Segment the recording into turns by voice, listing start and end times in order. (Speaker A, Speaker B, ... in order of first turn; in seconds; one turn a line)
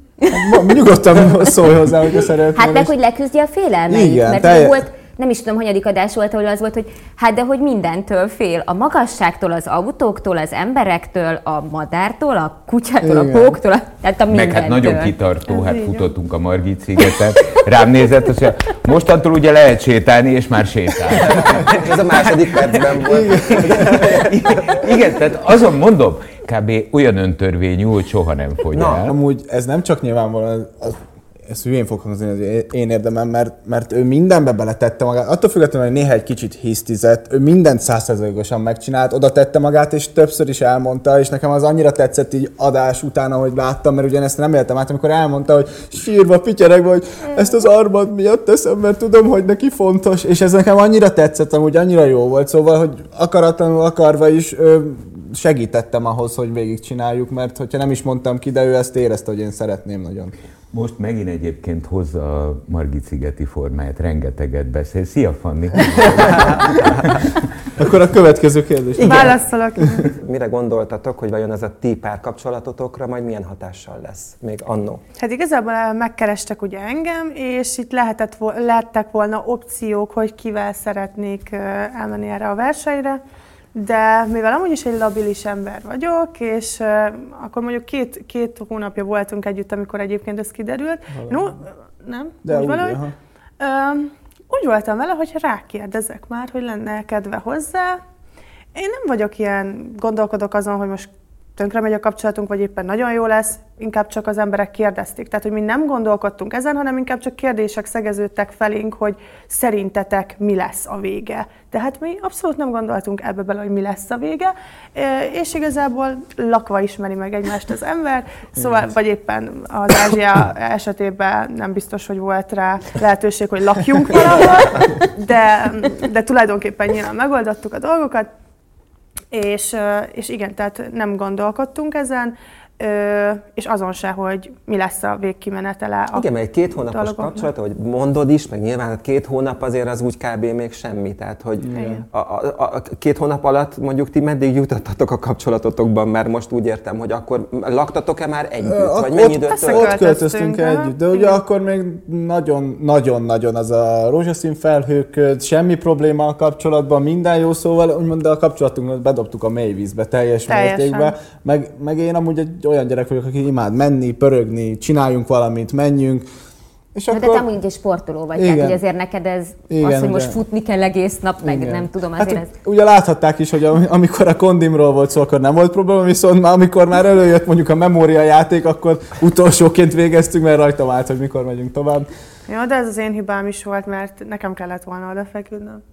Speaker A: 0.3-2.9
Speaker B: 2.5-15.2
Speaker A: 3.9-4.8
Speaker A: 13.0-13.6
Speaker C: 14.3-22.8
Speaker D: 15.5-16.1
Speaker E: 21.1-24.6
Speaker A: 23.1-24.3
Speaker C: 23.6-29.2
Speaker E: 28.7-29.1
Speaker A: 29.0-60.3
Speaker C: 60.7-67.4
Speaker A: 66.0-66.7
Speaker A: 67.8-69.8
Speaker E: 69.0-69.4
Speaker D: 69.0-70.1
Speaker E: 70.0-75.0
Speaker D: 75.2-83.2
Speaker D: 83.8-93.0
Speaker A: 91.2-91.4
Speaker A: 92.5-93.1
Speaker D: 93.6-98.0
Speaker D: 98.8-128.3
Speaker D: 129.3-137.5
Speaker E: 136.2-150.0
Speaker A: 141.6-142.0
Speaker D: 141.7-142.0
Speaker A: 148.6-166.2
Speaker D: 149.5-151.3
Speaker D: 160.5-161.2
Speaker A: 166.9-167.5
Speaker B: 167.1-172.5
Speaker A: 168.3-168.8
Speaker A: 169.7-170.4
Speaker A: 171.4-182.1
Speaker D: 182.5-185.8